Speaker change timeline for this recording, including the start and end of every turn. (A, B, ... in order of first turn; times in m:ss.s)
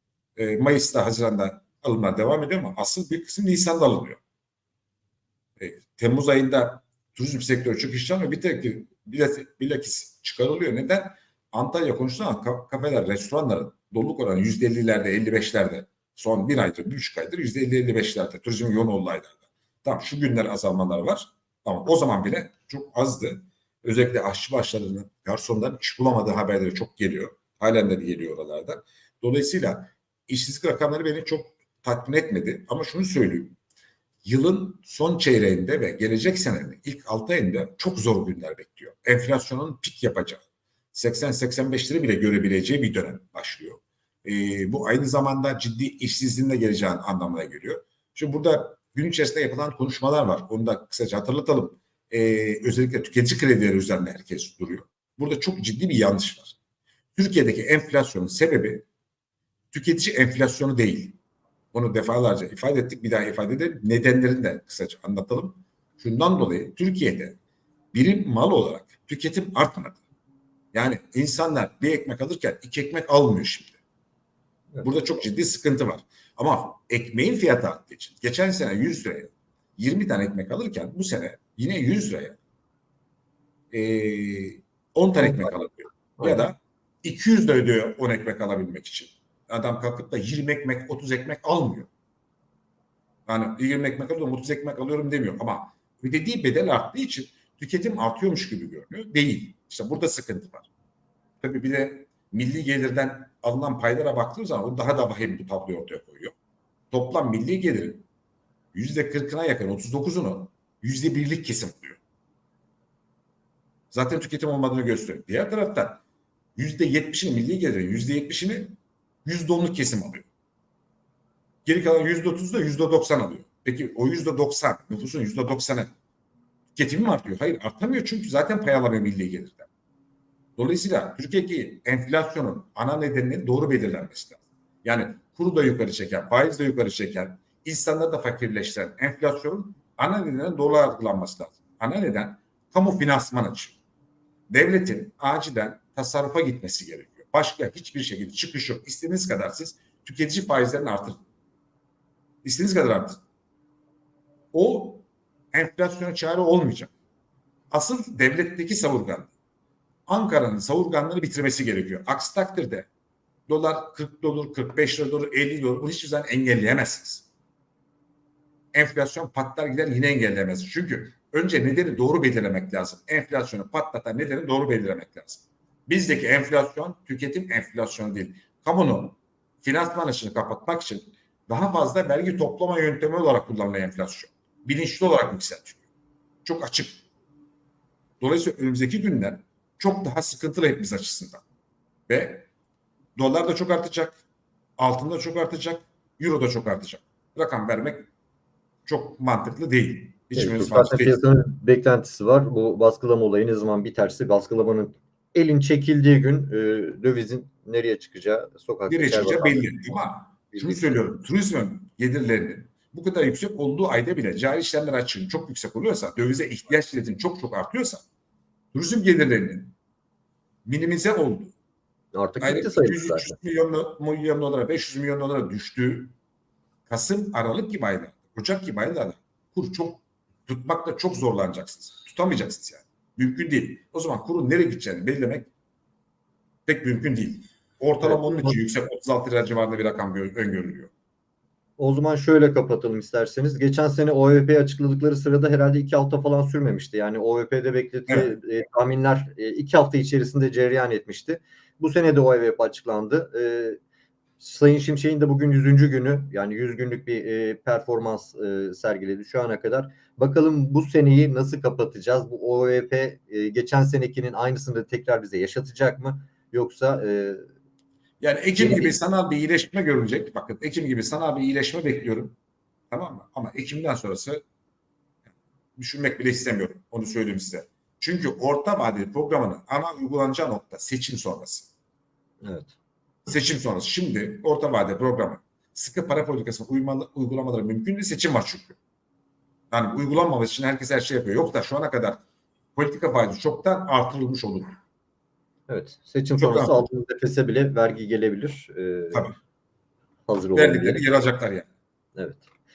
0:00.4-0:04.2 A
0:05.6-0:33.6 A
0:34.2-0:56.6 A
0:57.1-0:58.9 A
0:59.7-1:01.2 A
1:01.7-1:07.4 A
1:07.9-1:10.0 A
1:10.7-1:13.8 A
1:14.8-1:22.4 A
1:23.7-1:31.9 A
1:25.2-1:25.5 B
1:26.2-1:26.4 B
1:33.3-1:40.7 A
1:41.4-1:46.3 A
1:46.9-1:48.0 A
1:48.7-1:52.0 A
1:53.9-1:56.0 A
1:56.6-2:00.3 A
2:01.6-2:05.9 A
2:06.7-2:09.7 A
2:10.6-2:23.8 A
2:24.5-2:31.2 A
2:32.4-2:33.2 A
2:34.5-2:36.9 A
2:37.7-2:39.3 A
2:40.1-2:42.9 A
2:43.5-2:47.3 A
2:48.7-3:05.8 A
3:06.4-3:07.0 A
3:08.2-3:11.4 A
3:12.1-3:12.5 A
3:13.2-3:14.2 A
3:14.8-3:18.1 A
3:18.8-3:21.2 A
3:20.4-3:29.7 B
3:28.9-3:38.0 A
3:30.5-3:31.0 B
3:38.7-3:39.8 A
3:40.6-3:41.5 A
3:42.1-3:43.4 B
3:42.4-3:46.1 A
3:46.9-3:55.5 A
3:56.6-4:00.9 A
3:58.0-3:58.6 B
4:01.8-4:13.8 B
4:14.4-4:27.4 B
4:28.2-4:32.4 A
4:28.6-4:28.9 B
4:32.9-4:34.4 A
4:35.8-4:41.7 A
4:42.4-4:42.7 B
4:43.3-4:48.8 A
4:49.7-4:52.2 A
4:52.7-4:54.8 A
4:55.7-4:59.3 B
4:56.4-4:56.8 A
5:00.3-5:01.1 B
5:00.5-5:01.7 A
5:02.2-5:02.4 B